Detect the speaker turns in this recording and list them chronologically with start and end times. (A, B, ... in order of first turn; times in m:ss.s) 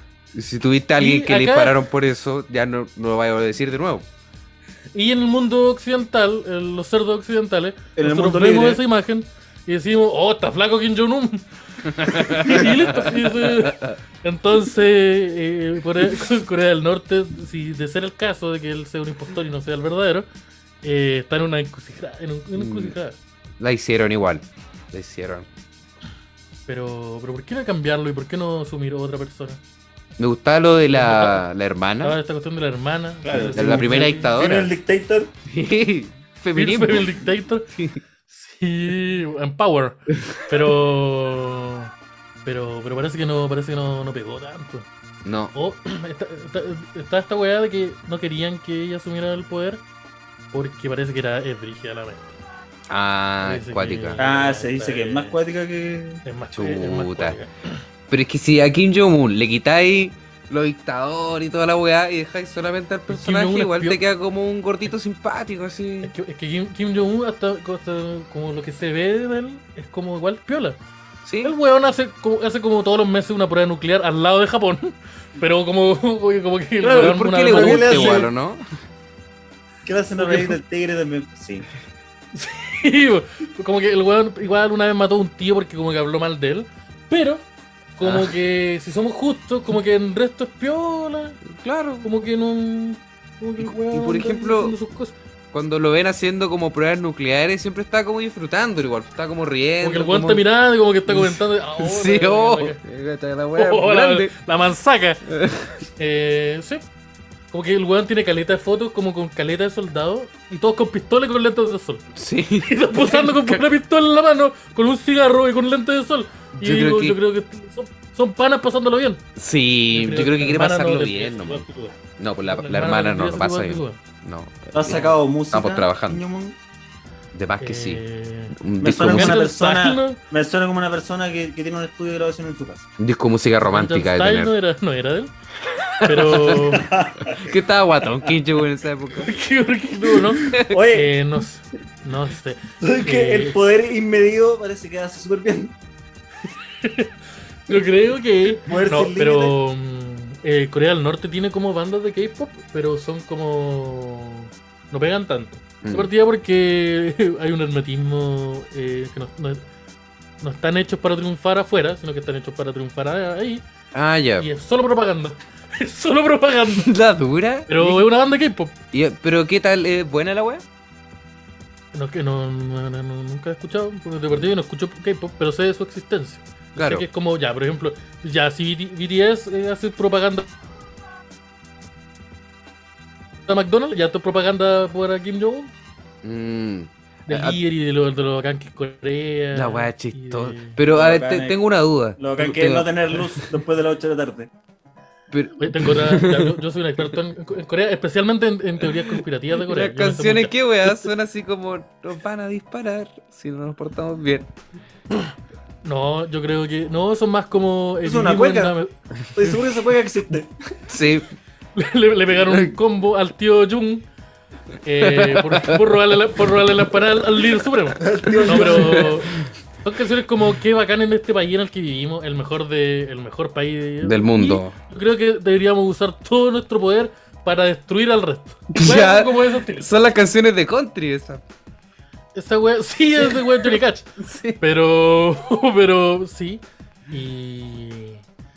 0:00.3-0:04.1 A
0:01.0-0:01.8 B
0:04.9-0:20.3 B
0:08.0-0:08.8 C
0:11.9-0:14.0 A
0:20.8-0:23.2 B
0:22.6-0:22.9 A
0:23.6-0:25.5 A
0:26.7-0:29.6 B
0:30.2-0:32.2 A
0:30.9-0:31.5 B
0:32.0-0:34.3 B
0:33.2-0:35.3 C
0:33.5-0:34.7 A
0:35.5-0:37.2 A
0:36.5-0:37.7 B
0:37.7-0:38.0 A
0:38.3-0:41.9 B
0:42.4-0:44.9 B
0:45.2-0:45.5 A
0:45.5-0:49.8 B
0:50.5-0:52.4 B
0:52.9-0:54.2 A
0:53.4-0:55.4 B
0:54.2-0:56.2 C
0:56.2-0:57.8 B
0:56.6-0:57.4 A
0:58.1-1:06.1 A
1:03.1-1:04.0 B
1:06.0-1:10.8 B
1:11.2-1:11.5 A
1:11.4-1:18.3 B
1:16.8-1:18.3 C
1:16.9-1:18.6 A
1:19.8-1:21.7 C
1:20.2-1:20.6 B
1:22.3-1:27.4 B
1:28.0-1:31.4 B
1:28.0-1:28.3 A
1:31.5-1:32.1 A
1:32.0-1:35.2 B
1:33.6-1:34.8 A
1:35.5-1:40.4 A
1:39.8-1:42.8 B
1:41.1-1:44.4 A
1:43.6-1:45.2 B
1:45.3-1:45.8 A
1:46.0-1:46.8 B
1:47.5-1:52.0 B
1:52.1-1:53.6 A
1:52.6-1:59.2 B
1:56.6-1:57.2 A
1:59.4-2:01.6 A
1:59.9-2:04.0 B
2:02.2-2:06.2 A
2:04.7-2:06.6 C
2:04.9-2:05.2 B
2:07.3-2:08.0 A
2:07.6-2:10.2 B
2:08.6-2:09.4 A
2:08.8-2:12.9 C
2:13.0-2:14.5 A
2:13.6-2:15.3 B
2:15.7-2:19.3 A
2:16.0-2:16.9 B
2:16.8-2:17.5 C
2:19.2-2:23.6 B
2:20.4-2:20.8 A
2:20.5-2:21.1 C
2:22.8-2:25.7 C
2:26.8-2:27.1 B
2:27.7-2:39.6 B
2:28.7-2:29.6 C
2:35.8-2:36.1 A
2:40.4-2:43.6 B
2:43.9-2:44.5 A
2:44.4-2:46.9 B
2:46.8-2:48.1 A
2:47.7-2:48.8 B
2:48.9-2:50.6 A
2:51.9-3:00.5 B
2:56.8-2:57.0 A
3:03.5-3:05.7 B
3:06.2-3:07.6 A
3:07.3-3:10.8 B
3:09.5-3:13.5 A
3:10.9-3:11.6 C
3:12.2-3:14.5 C
3:15.3-3:16.6 A
3:15.6-3:21.1 B
3:18.8-3:24.5 A
3:25.8-3:28.9 B
3:28.0-3:28.8 C
3:29.3-3:30.5 C
3:30.9-3:31.3 A
3:31.8-3:34.1 B
3:32.4-3:32.8 A
3:34.8-3:49.9 B
3:35.0-3:35.9 A
3:38.0-3:39.2 C
3:38.3-3:39.2 A
3:44.0-3:44.8 A
3:48.7-3:51.4 A
3:52.4-3:58.2 B
3:53.2-3:54.6 A